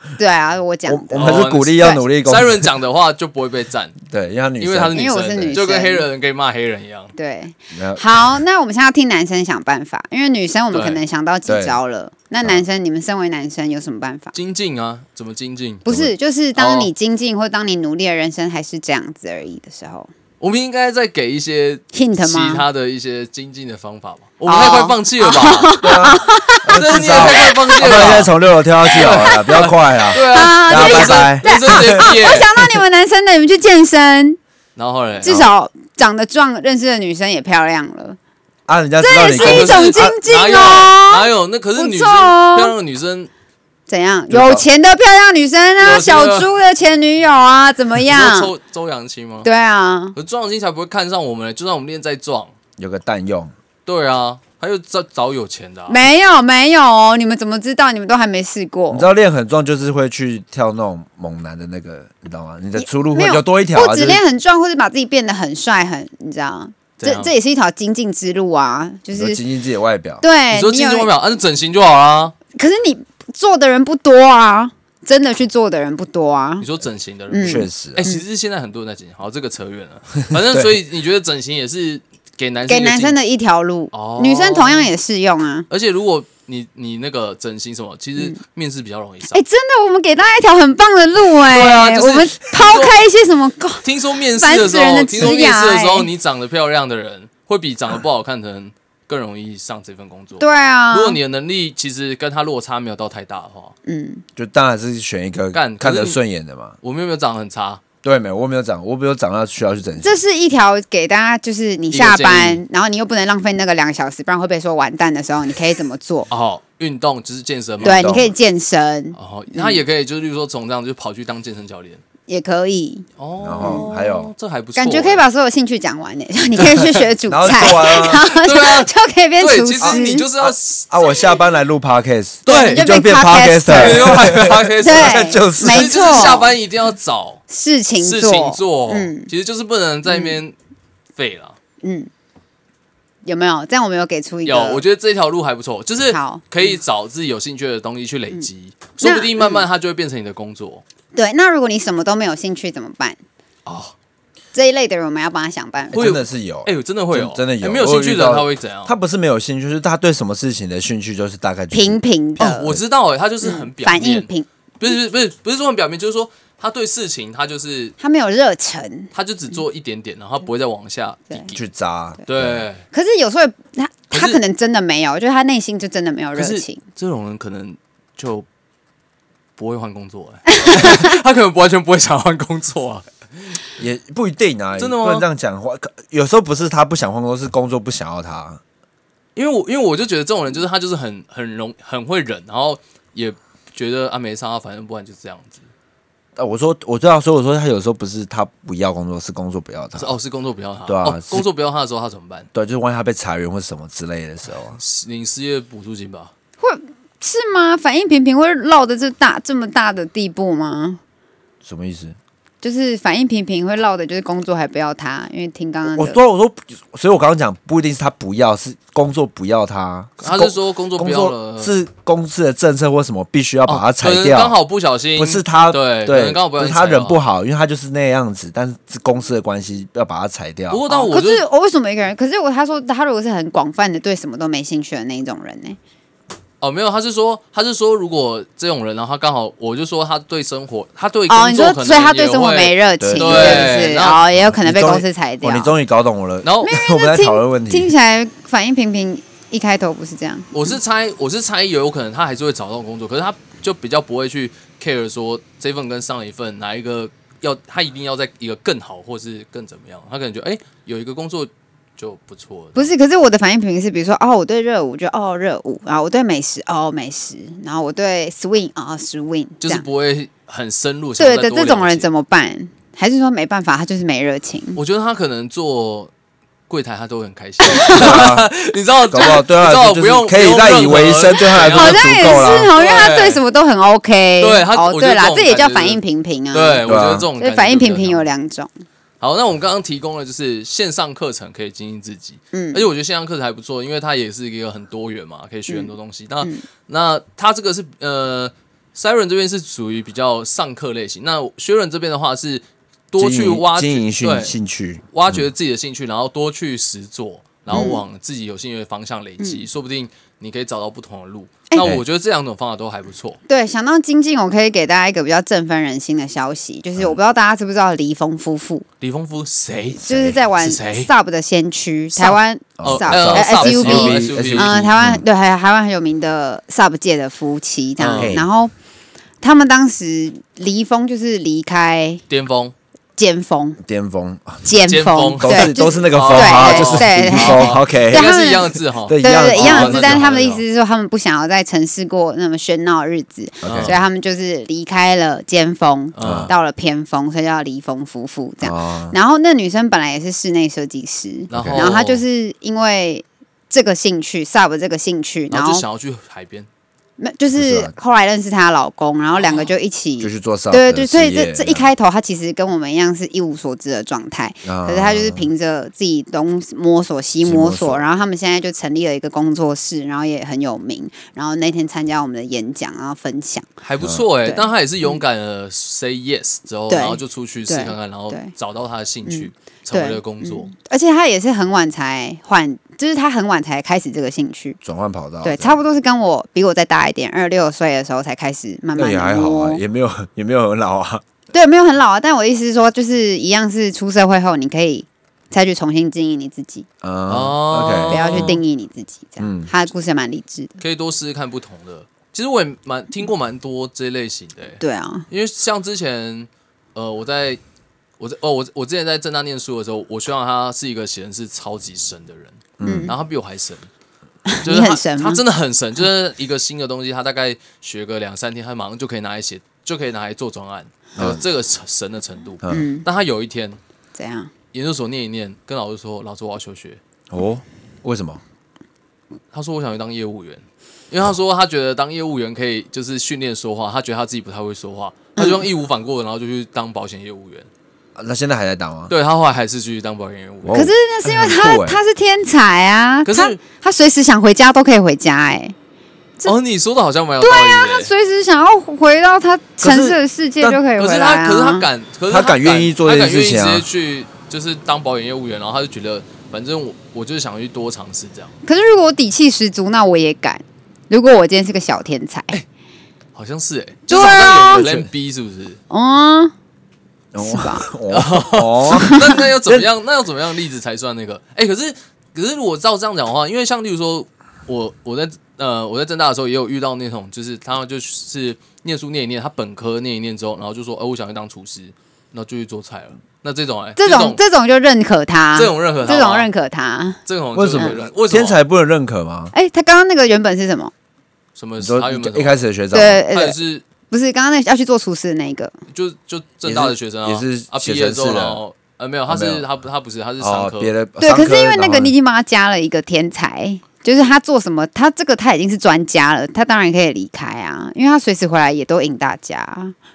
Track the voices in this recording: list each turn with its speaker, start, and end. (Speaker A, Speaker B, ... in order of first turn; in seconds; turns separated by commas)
Speaker A: 0.2-2.0, Speaker B: 0.9-2.7, Speaker C: 1.1-4.0, Speaker B: 4.0-5.5, Speaker C: 4.6-7.1, Speaker A: 4.9-6.1, Speaker A: 7.2-14.3, Speaker B: 7.7-8.4, Speaker C: 10.7-11.0, Speaker B: 11.5-11.8, Speaker C: 14.3-15.9, Speaker A: 15.9-20.1, Speaker B: 15.9-16.1, Speaker C: 16.6-16.9, Speaker C: 20.4-25.8, Speaker A: 21.9-22.6, Speaker A: 24.5-27.8, Speaker B: 25.8-32.7, Speaker C: 26.8-32.5, Speaker A: 30.3-34.4, Speaker C: 34.8-35.4, Speaker A: 35.2-38.2, Speaker B: 35.2-35.5, Speaker B: 38.7-40.2, Speaker A: 39.0-42.8, Speaker C: 39.3-43.3, Speaker A: 43.9-48.5, Speaker B: 44.3-44.6, Speaker C: 45.8-46.5, Speaker C: 48.1-49.5, Speaker A: 49.4-50.1, Speaker C: 50.1-52.5, Speaker B: 52.8-53.5, Speaker C: 53.9-56.0, Speaker A: 55.9-59.1, Speaker B: 58.9-64.2, Speaker A: 62.8-69.4, Speaker C: 67.0-67.3, Speaker B: 69.1-70.2, Speaker A: 70.2-71.1, Speaker C: 70.5-72.4, Speaker A: 72.5-76.7, Speaker C: 76.6-83.2, Speaker A: 77.3-78.2, Speaker B: 77.4-78.1, Speaker B: 80.3-80.8, Speaker A: 82.7-85.7, Speaker C: 83.9-84.9, Speaker C: 85.7-89.4, Speaker A: 89.3-96.1, Speaker C: 91.5-93.0, Speaker C: 93.8-103.8, Speaker A: 100.4-101.2, Speaker A: 103.9-104.2, Speaker B: 104.4-106.8, Speaker C: 105.5-106.2, Speaker C: 106.8-107.8, Speaker B: 108.0-110.2, Speaker A: 110.0-116.3, Speaker C: 111.9-112.6, Speaker C: 116.3-118.1, Speaker B: 117.8-118.3, Speaker A: 117.8-119.8, Speaker C: 119.1-122.0, Speaker A: 122.3-123.1, Speaker C: 123.2-125.2, Speaker B: 123.4-124.3, Speaker A: 123.6-123.9, Speaker A: 124.8-130.3, Speaker C: 126.6-127.0, Speaker B: 127.3-128.3, Speaker C: 127.6-131.3, Speaker B: 129.8-136.4, Speaker C: 132.5-132.9, Speaker A: 132.5-136.6, Speaker C: 133.7-137.4, Speaker A: 137.5-139.3, Speaker C: 138.0-140.6, Speaker A: 140.1-140.4, Speaker C: 141.2-141.6, Speaker A: 141.8-142.1, Speaker A: 143.2-144.8, Speaker C: 144.4-150.8, Speaker A: 146.1-146.8, Speaker A: 149.0-149.7, Speaker A: 151.1-153.2, Speaker C: 153.7-153.9, Speaker A: 154.5-156.1, Speaker B: 155.9-162.0, Speaker C: 155.9-158.9, Speaker A: 161.7-162.8, Speaker C: 162.4-164.3, Speaker A: 163.4-164.5, Speaker C: 164.8-168.0, Speaker A: 168.0-169.6, Speaker C: 169.1-171.6, Speaker B: 171.5-172.7, Speaker C: 172.3-172.8, Speaker A: 172.9-176.8, Speaker C: 174.1-174.4, Speaker C: 176.3-178.5, Speaker C: 179.6-183.6, Speaker A: 180.5-181.2, Speaker B: 183.8-188.6, Speaker C: 184.8-185.3, Speaker C: 189.4-195.7, Speaker B: 196.4-200.2, Speaker C: 200.0-202.5, Speaker B: 200.9-201.5, Speaker B: 202.5-204.8, Speaker C: 204.8-206.3, Speaker A: 206.6-211.0, Speaker B: 211.6-212.2, Speaker A: 212.6-216.2, Speaker B: 215.9-224.6, Speaker C: 220.2-221.7, Speaker C: 223.7-227.2, Speaker B: 225.2-231.1, Speaker C: 230.7-231.4, Speaker A: 231.1-235.8, Speaker C: 236.6-244.2, Speaker A: 241.3-245.7, Speaker B: 243.0-243.8, Speaker B: 244.3-247.9, Speaker C: 246.4-246.8, Speaker A: 246.6-250.7, Speaker C: 250.5-262.9, Speaker A: 262.8-269.9, Speaker C: 269.6-272.1, Speaker A: 271.2-274.8, Speaker C: 274.8-276.1, Speaker C: 276.7-283.4, Speaker A: 277.6-278.2, Speaker B: 277.9-278.5, Speaker B: 279.1-282.7, Speaker A: 281.7-286.8, Speaker C: 284.4-286.0, Speaker C: 286.5-288.3, Speaker B: 286.9-287.3, Speaker A: 287.4-288.7, Speaker C: 289.2-304.5, Speaker A: 292.5-292.9, Speaker A: 295.7-296.6, Speaker B: 303.2-305.5, Speaker C: 305.1-313.4, Speaker A: 307.7-308.0, Speaker B: 311.8-312.0, Speaker A: 313.5-318.9, Speaker C: 319.0-320.1, Speaker B: 320.0-320.4, Speaker A: 320.1-328.7, Speaker C: 320.6-321.1, Speaker C: 322.1-324.8, Speaker B: 322.8-325.2, Speaker C: 328.0-328.4, Speaker B: 328.2-328.5, Speaker A: 329.4-332.2, Speaker C: 332.3-332.7, Speaker A: 333.2-333.8, Speaker B: 333.8-334.8, Speaker A: 334.6-355.8, Speaker C: 334.9-340.6, Speaker B: 335.4-338.3, Speaker B: 339.1-340.3, Speaker B: 343.6-344.1, Speaker C: 343.6-344.0, Speaker C: 346.1-346.5, Speaker B: 346.2-346.5, Speaker B: 348.6-349.1, Speaker C: 351.5-352.2, Speaker B: 351.5-351.9, Speaker C: 355.5-356.7, Speaker A: 357.2-373.7, Speaker B: 357.6-357.9, Speaker C: 359.4-359.7, Speaker B: 360.2-361.9, Speaker B: 364.6-365.5, Speaker B: 367.4-368.1, Speaker C: 373.8-380.7, Speaker B: 374.0-374.3, Speaker A: 374.5-375.2, Speaker A: 376.9-378.5, Speaker A: 379.3-384.8, Speaker B: 384.8-385.8, Speaker A: 385.4-389.8, Speaker B: 388.9-391.2, Speaker A: 391.5-396.9, Speaker B: 397.0-398.6, Speaker C: 397.3-398.6, Speaker A: 398.1-400.8, Speaker B: 399.4-399.7, Speaker C: 400.8-407.6, Speaker A: 404.8-405.3, Speaker C: 408.2-413.9, Speaker B: 412.8-413.1, Speaker A: 412.8-413.1, Speaker A: 414.5-415.4, Speaker C: 414.6-423.8, Speaker B: 421.1-421.4, Speaker A: 422.7-423.1, Speaker A: 424.1-424.5, Speaker C: 424.7-427.0, Speaker B: 427.3-428.4, Speaker C: 429.5-437.7, Speaker A: 435.4-435.6, Speaker B: 438.1-439.1, Speaker C: 439.1-440.8, Speaker B: 440.6-442.0, Speaker A: 440.7-445.8, Speaker C: 443.2-443.6, Speaker C: 446.4-448.1, Speaker A: 447.4-451.9, Speaker B: 449.8-450.8, Speaker C: 451.0-458.5, Speaker B: 452.3-453.9, Speaker A: 458.6-462.6, Speaker C: 463.4-465.8, Speaker A: 464.1-464.9, Speaker B: 464.8-465.1, Speaker A: 465.9-466.5, Speaker B: 467.3-469.9, Speaker A: 467.4-467.9, Speaker C: 468.1-484.4, Speaker A: 469.0-469.4, Speaker A: 484.0-487.2, Speaker C: 485.6-486.5, Speaker C: 487.3-488.6, Speaker B: 487.5-489.5, Speaker A: 489.5-490.9, Speaker C: 491.6-492.6, Speaker B: 491.8-493.2, Speaker A: 492.9-493.6, Speaker C: 493.2-493.9, Speaker A: 494.1-495.7, Speaker C: 495.9-500.9, Speaker B: 496.6-498.6, Speaker B: 499.3-499.6, Speaker B: 500.4-502.1, Speaker A: 501.2-509.9